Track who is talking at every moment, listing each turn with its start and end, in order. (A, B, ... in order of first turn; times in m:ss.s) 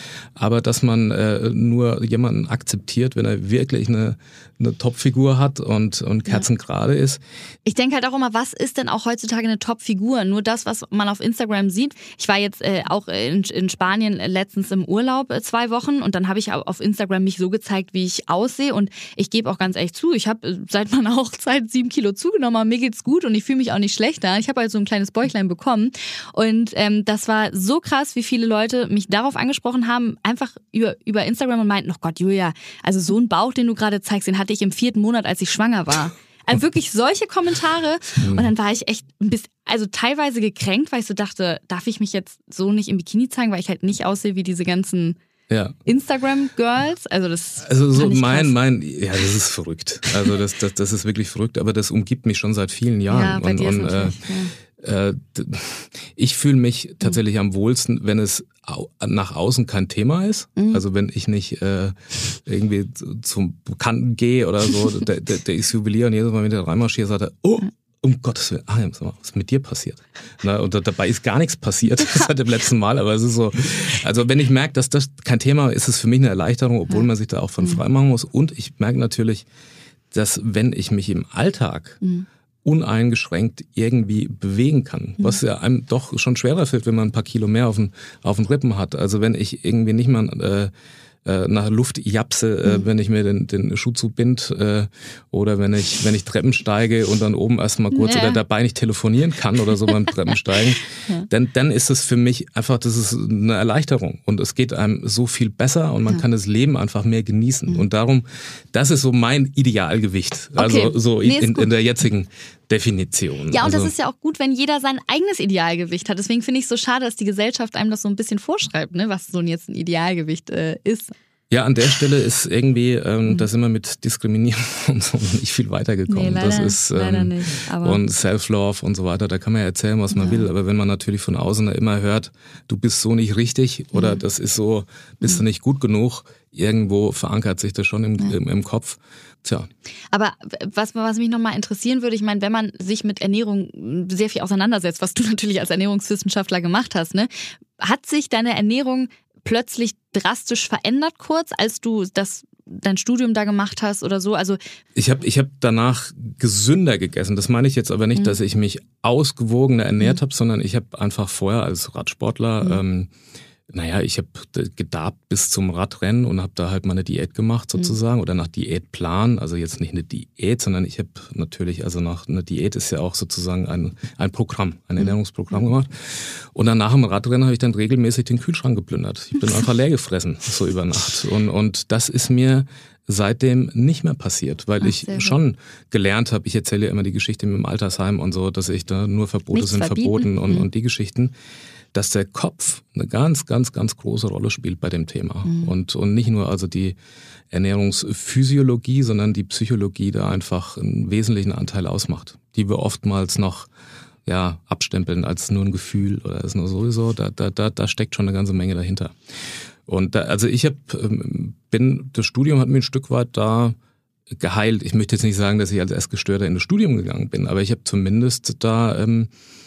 0:00.4-0:07.2 A
0:07.6-0:45.2 B
0:38.2-0:38.5 A
0:45.5-0:45.7 A
0:45.8-0:48.5 B
0:47.6-0:54.2 A
0:53.1-0:54.5 B
0:54.8-1:19.4 A
1:00.6-1:00.8 B
1:20.1-1:22.0 A
1:22.6-1:30.7 A
1:31.2-1:53.9 A
1:37.9-1:38.4 B
1:50.6-1:51.7 B
1:53.5-2:01.1 B
2:01.5-2:19.7 A
2:06.1-2:08.0 B
2:10.1-2:10.5 B
2:13.9-2:14.2 B
2:20.1-2:34.6 B
2:34.9-2:43.1 A
2:43.7-3:11.3 A
2:55.0-2:55.6 B
3:04.8-3:05.3 B
3:09.5-3:10.7 B
3:11.9-3:17.0 A
3:15.4-3:15.7 B
3:17.5-3:23.7 A
3:24.2-3:29.1 A
3:29.9-3:33.7 A
3:34.4-3:39.3 A